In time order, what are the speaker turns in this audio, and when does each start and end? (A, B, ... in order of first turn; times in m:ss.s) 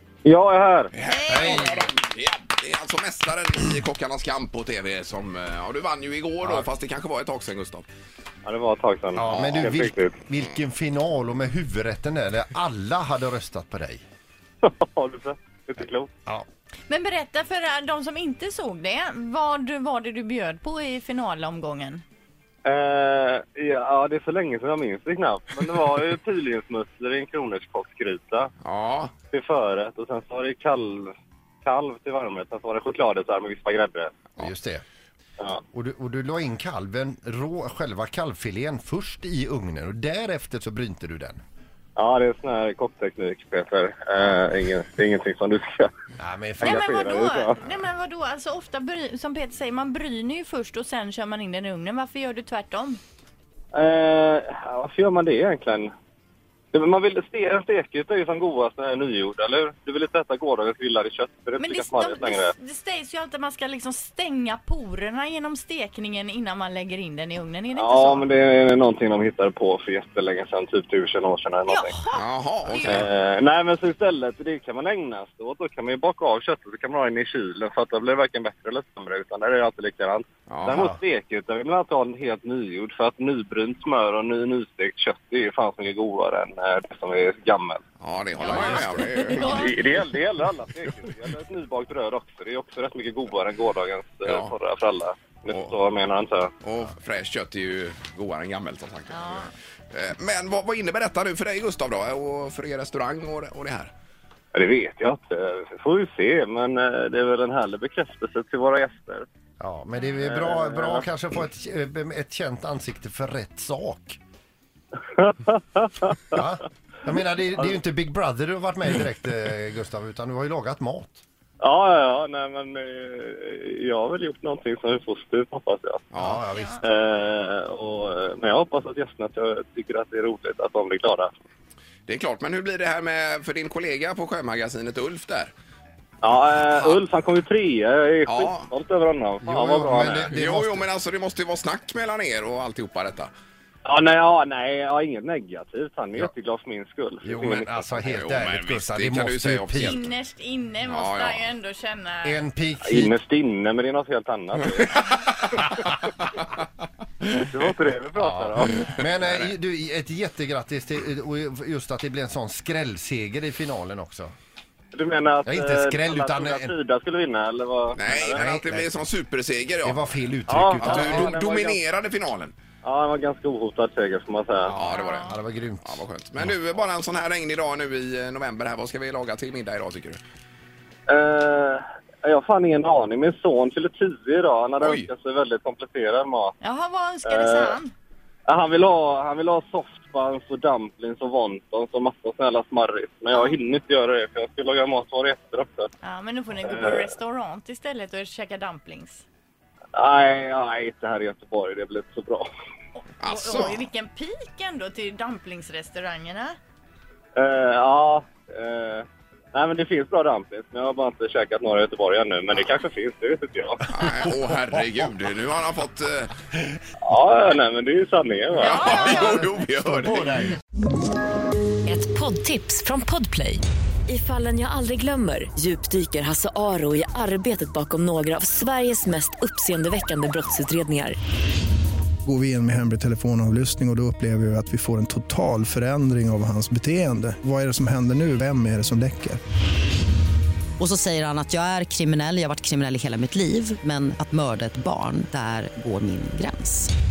0:00.2-0:00.9 A
0:00.9-0:07.8 B
0:01.1-0:01.9 C
0:01.3-0:01.8 D
0:06.4-0:06.7 D
0:08.4-0:10.2 A
0:09.1-0:14.0 D
0:09.3-0:09.7 B
0:14.6-0:16.1 A
0:16.9-0:22.0 C
0:22.6-0:28.5 A
0:28.6-0:29.1 B
0:29.3-0:34.2 A
0:34.4-0:34.8 D
0:35.7-0:41.4 D
0:42.0-0:45.9 A
0:46.2-0:47.0 D
0:46.6-0:53.0 C
0:46.6-0:47.6 A
0:53.7-0:55.9 A
0:56.7-1:02.5 A
1:01.6-1:08.3 C
1:07.7-1:11.9 A
1:11.7-1:13.1 C
1:12.1-1:13.1 B
1:12.8-1:27.8 A
1:20.5-1:20.8 B
1:28.0-1:30.0 B
1:28.4-1:29.8 C
1:29.4-1:36.5 A
1:34.2-1:34.5 B
1:36.6-1:43.9 B
1:39.1-1:39.5 C
1:44.5-1:49.3 A
1:49.6-1:54.2 D
1:50.2-1:51.0 A
1:55.2-1:56.4 A
1:56.3-2:01.2 D
2:01.6-2:06.1 A
2:06.1-2:06.4 B
2:06.2-2:06.8 D
2:06.5-2:06.8 C
2:06.8-2:11.3 A
2:12.0-2:15.5 B
2:16.2-2:20.3 A
2:16.5-2:17.0 B
2:18.2-2:18.7 B
2:19.4-2:20.9 D
2:20.3-2:23.3 B
2:23.8-2:27.8 A
2:27.2-2:30.0 D
2:27.9-2:30.1 B
2:29.8-2:32.4 C
2:30.8-2:31.4 B
2:32.2-2:33.1 D
2:32.8-2:35.4 A
2:37.4-2:38.9 A
2:38.1-2:44.3 D
2:44.9-2:48.4 A
2:45.4-2:46.7 D
2:47.9-2:50.0 B
2:48.3-2:48.9 D
2:49.8-2:51.4 D
2:50.5-2:51.8 A
2:50.8-2:52.5 B
2:52.8-2:54.7 A
2:54.7-3:00.2 B
2:54.8-2:55.4 C
2:54.8-2:56.5 D
3:01.1-3:06.5 A
3:04.8-3:05.1 B
3:06.6-3:07.9 C
3:07.2-3:07.8 A
3:08.5-3:15.9 A
3:16.0-3:19.2 C
3:16.6-3:17.0 A
3:19.9-3:22.5 A
3:23.2-3:26.6 C
3:23.2-3:23.8 B
3:27.4-3:33.8 A
3:33.9-3:36.3 B
3:34.1-3:34.3 D
3:37.0-3:39.0 A
3:38.5-3:39.4 C
3:38.8-3:40.6 D
3:38.8-3:40.5 B
3:41.8-3:51.2 E
3:52.2-3:59.4 F
4:00.8-4:06.9 G